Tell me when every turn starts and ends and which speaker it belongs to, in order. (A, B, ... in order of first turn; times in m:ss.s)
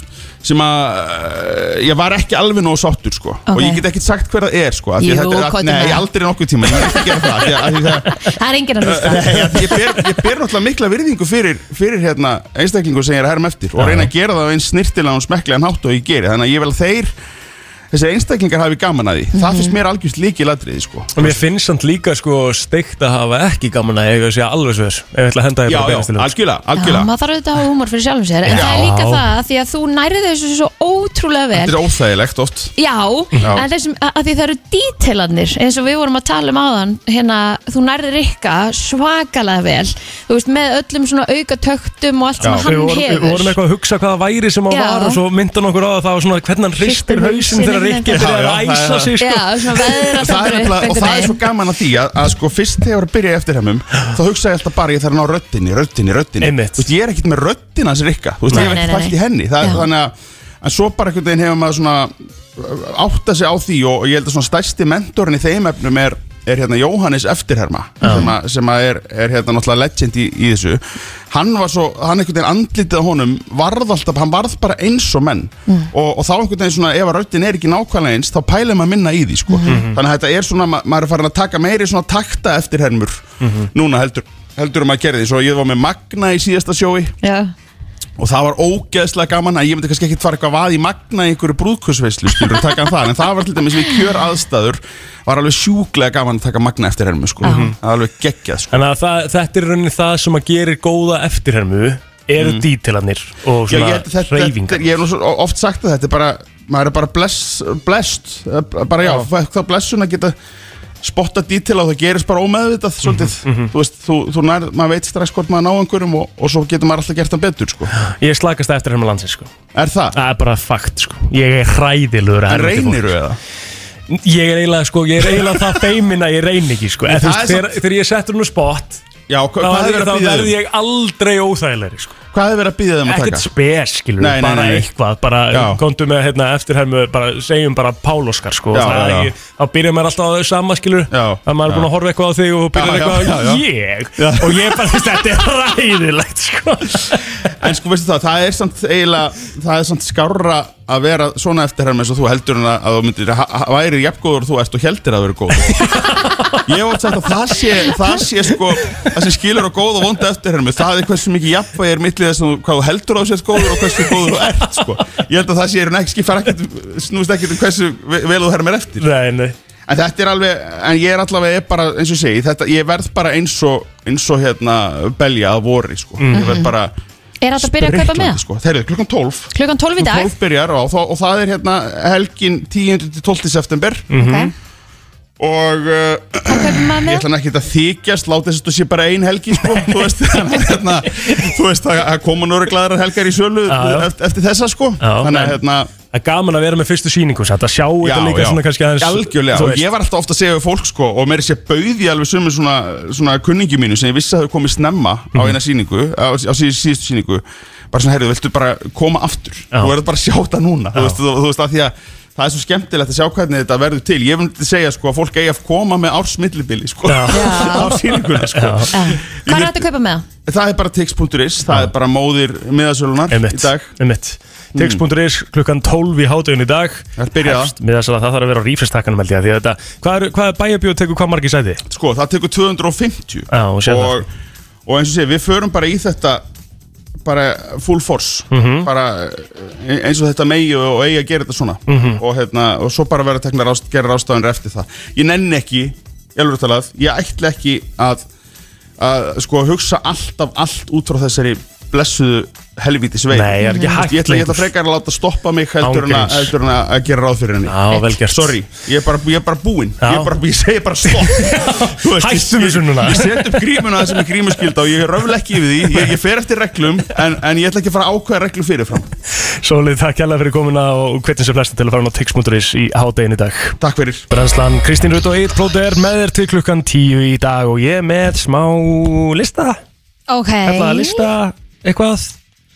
0:00.4-0:08.2 A
0:03.5-0:03.8 B
0:05.0-0:06.1 B
0:06.7-0:07.5 B
0:08.1-0:09.9 B
0:08.8-0:17.1 A
0:13.8-0:14.1 C
0:17.9-0:21.4 A
0:19.3-0:19.8 B
0:21.2-0:26.4 C
0:25.6-0:27.1 A
0:26.8-0:31.8 B
0:28.4-0:29.3 C
0:28.4-0:28.9 A
0:31.6-0:32.7 A
0:32.8-0:43.6 B
0:33.3-0:33.6 C
0:33.4-0:33.6 A
0:42.4-0:50.2 C
0:44.7-0:45.2 B
0:46.8-0:48.3 B
0:48.1-0:49.2 A
0:49.2-0:51.4 B
0:50.1-1:27.2 A
0:56.4-0:56.9 C
0:58.5-0:58.8 C
0:58.5-0:59.9 B
1:08.0-1:08.4 B
1:08.0-1:08.3 C
1:19.5-1:19.9 B
1:19.7-1:20.0 C
1:23.4-1:23.7 C
1:27.2-1:27.5 B
1:28.2-1:38.8 A
1:37.4-1:37.7 B
1:37.4-1:37.8 C
1:38.7-1:45.0 C
1:42.4-1:42.6 A
1:43.7-1:50.4 A
1:49.0-1:49.3 C
1:51.0-1:57.9 A
1:53.0-1:53.7 C
1:58.0-1:59.5 C
1:59.7-2:00.2 A
2:00.1-2:03.2 C
2:02.5-2:03.4 A
2:04.1-2:09.0 C
2:05.3-2:05.8 A
2:07.0-2:07.8 A
2:09.3-2:10.6 A
2:09.6-2:12.2 C
2:12.3-2:13.5 A
2:13.0-2:27.2 C
2:14.2-2:14.9 A
2:15.5-2:15.8 A
2:18.7-2:19.3 A
2:21.1-2:21.9 A
2:22.7-2:23.6 A
2:24.2-2:25.0 A
2:27.6-2:36.0 A
2:35.7-2:36.8 C
2:36.6-2:49.1 A
2:43.7-2:44.3 C
2:49.0-2:49.6 C
2:49.9-2:56.9 A
2:56.2-2:56.6 C
2:56.3-2:56.7 B
2:57.4-2:58.4 B
2:57.6-3:04.1 A
2:59.5-3:00.4 B
3:04.1-3:04.5 C
3:04.2-3:04.5 B
3:05.4-3:15.9 A
3:06.4-3:07.3 B
3:09.6-3:10.1 C
3:13.7-3:14.1 C
3:15.0-3:19.9 C
3:18.0-3:39.8 A
3:30.9-3:31.2 C
3:37.1-3:39.1 C
3:37.3-3:38.0 B
3:38.9-3:40.2 B
3:40.5-3:43.9 A
3:41.7-3:41.9 C
3:43.3-3:51.8 C
3:44.8-3:45.0 A
3:47.2-3:47.8 A
3:51.9-3:54.3 A
3:53.5-3:54.3 C
3:54.9-3:56.4 A
3:57.2-4:08.2 A
3:58.5-3:58.9 C
4:01.9-4:02.2 C
4:09.0-4:29.1 A
4:13.3-4:14.7 C
4:13.6-4:14.0 B
4:15.8-4:16.5 C
4:17.7-4:18.6 C
4:20.0-4:20.4 C
4:21.0-4:24.2 C
4:29.4-4:33.8 C
4:33.8-4:34.2 A
4:34.3-4:39.8 C
4:40.3-4:41.3 B
4:40.6-4:42.4 C